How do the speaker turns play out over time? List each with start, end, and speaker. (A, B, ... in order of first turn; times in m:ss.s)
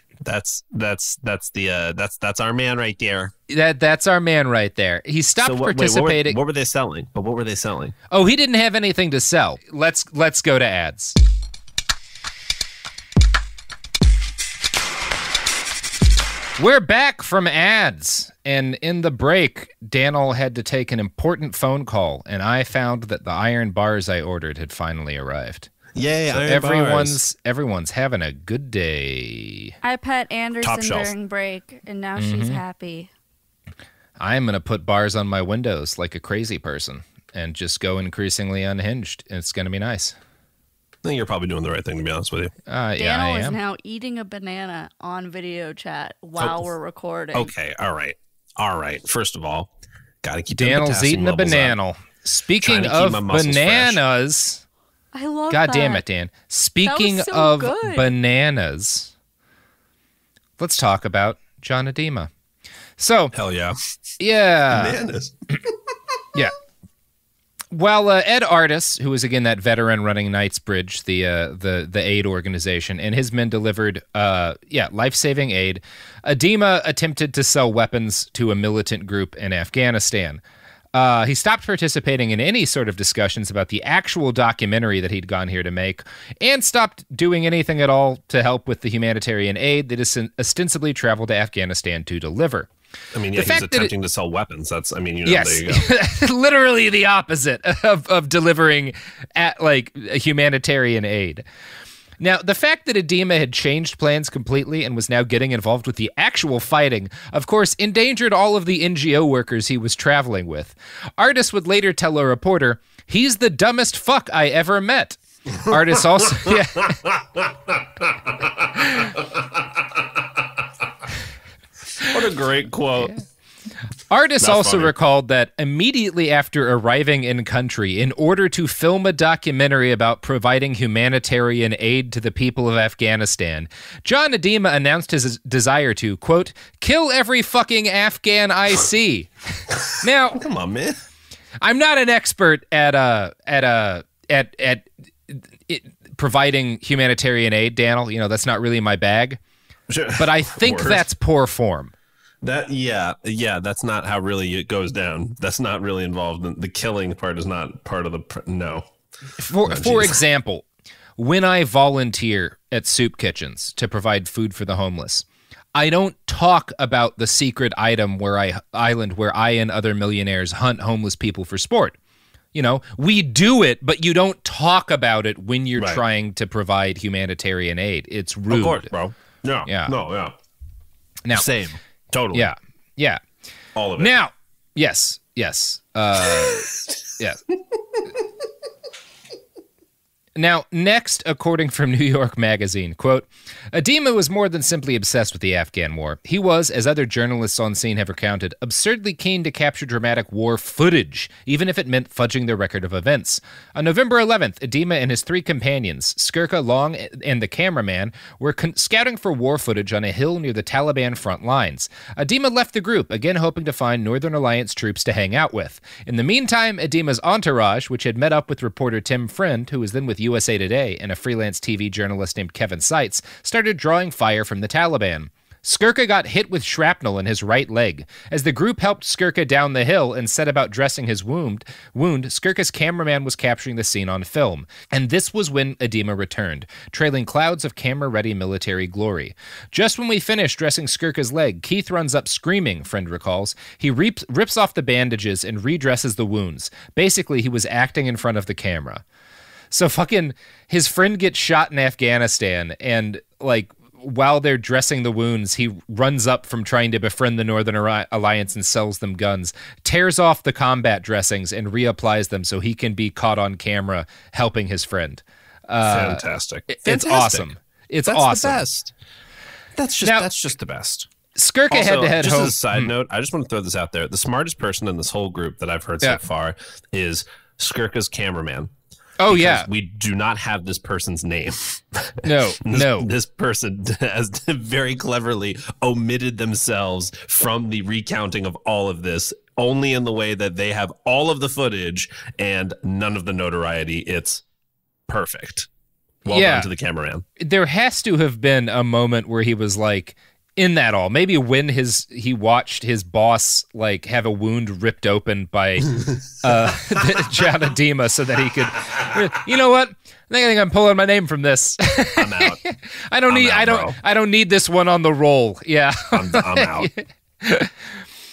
0:00.2-0:03.3 A
0:03.5-0:06.4 B
0:05.4-0:07.9 A
0:08.1-0:11.2 B
0:16.6-0:25.7 B
0:25.9-0:27.2 A
0:26.3-0:29.7 B
0:29.8-0:33.1 C
0:30.6-0:31.1 A
0:32.2-0:32.6 B
0:34.2-0:40.1 B
0:41.0-0:42.5 A
0:42.7-0:43.6 B
0:43.0-0:47.5 C
0:46.4-0:46.7 A
0:47.3-0:49.7 A
0:50.2-0:51.8 A
0:50.5-0:54.6 B
0:52.6-0:54.0 A
0:55.1-0:56.0 C
0:55.5-0:59.1 B
0:56.8-0:58.1 C
1:00.6-1:02.3 B
1:03.0-1:03.3 B
1:03.3-1:03.8 A
1:04.2-1:05.0 B
1:04.7-1:05.9 A
1:07.7-1:20.4 B
1:20.9-1:32.7 B
1:33.1-1:35.9 A
1:33.3-1:33.9 B
1:35.2-1:41.4 B
1:42.2-1:57.0 B
1:55.6-2:00.7 A
2:02.0-2:03.2 A
2:04.1-2:20.4 B
2:04.4-2:04.9 A
2:19.8-2:21.0 A
2:21.6-2:29.4 B
2:29.9-2:31.0 A
2:30.2-2:31.9 B
2:32.4-2:38.9 A
2:39.4-2:40.6 B
2:39.6-2:40.2 A
2:41.2-2:52.0 B
2:52.5-2:58.9 B
2:55.8-2:56.0 A
2:58.5-3:00.3 A
2:59.7-2:59.9 B
3:01.3-3:02.5 A
3:02.3-3:03.2 B
3:03.8-3:04.1 A
3:04.0-3:07.4 B
3:06.2-3:06.9 A
3:10.4-4:09.0 B
4:09.7-4:28.6 B
4:25.8-4:27.5 A
4:28.1-4:28.9 A
4:29.7-4:31.1 A
4:30.0-4:30.3 B
4:31.4-4:32.9 B
4:31.7-4:38.7 A
4:39.2-4:39.7 B
4:39.3-4:54.4 A
4:42.2-4:43.1 B
4:55.1-4:55.7 A
4:56.2-4:57.2 A
4:56.3-4:56.7 B
4:57.4-5:17.7 B
5:12.2-5:12.6 A
5:13.3-5:14.0 A
5:16.1-5:16.9 A